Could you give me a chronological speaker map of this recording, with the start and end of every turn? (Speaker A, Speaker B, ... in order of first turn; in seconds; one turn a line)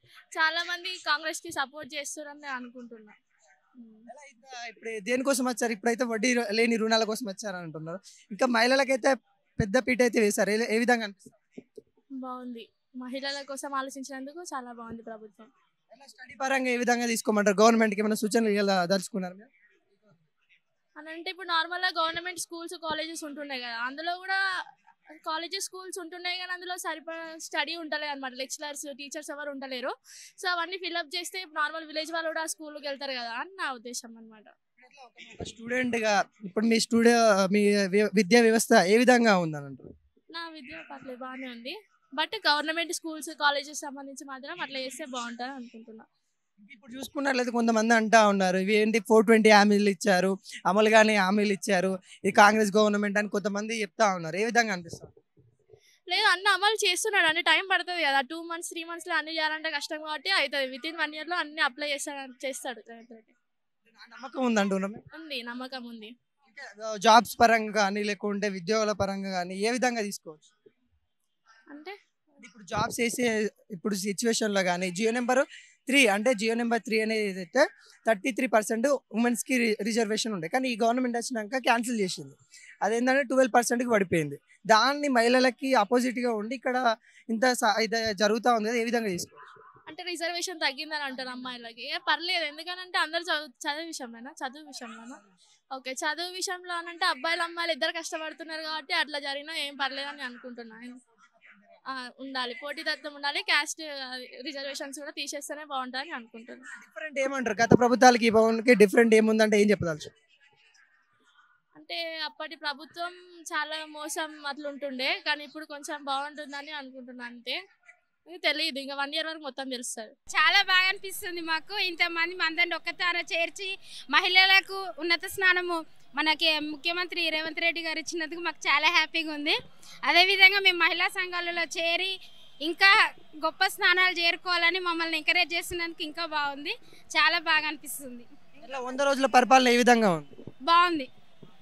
Speaker A: 0.3-3.1
Speaker A: 3.8-4.1
Speaker B: 4.1-11.4
Speaker A: 12.2-15.5
Speaker B: 15.9-19.5
Speaker A: 21.0-24.4
Speaker A: 25.2-34.5
Speaker B: 34.8-39.9
Speaker A: 40.3-46.0
Speaker B: 46.6-55.1
Speaker A: 56.1-63.3
Speaker B: 63.9-65.0
Speaker A: 65.1-66.1
Speaker B: 66.5-70.5
Speaker A: 71.7-72.0
Speaker B: 72.4-86.8
Speaker B: 87.3-89.5
Speaker A: 89.9-95.2
Speaker A: 95.7-101.0
Speaker A: 101.9-106.7
Speaker B: 106.8-110.1
Speaker A: 111.8-117.6
Speaker A: 118.3-120.1
Speaker C: 120.3-138.3
Speaker B: 138.6-140.3
Speaker C: 140.7-141.1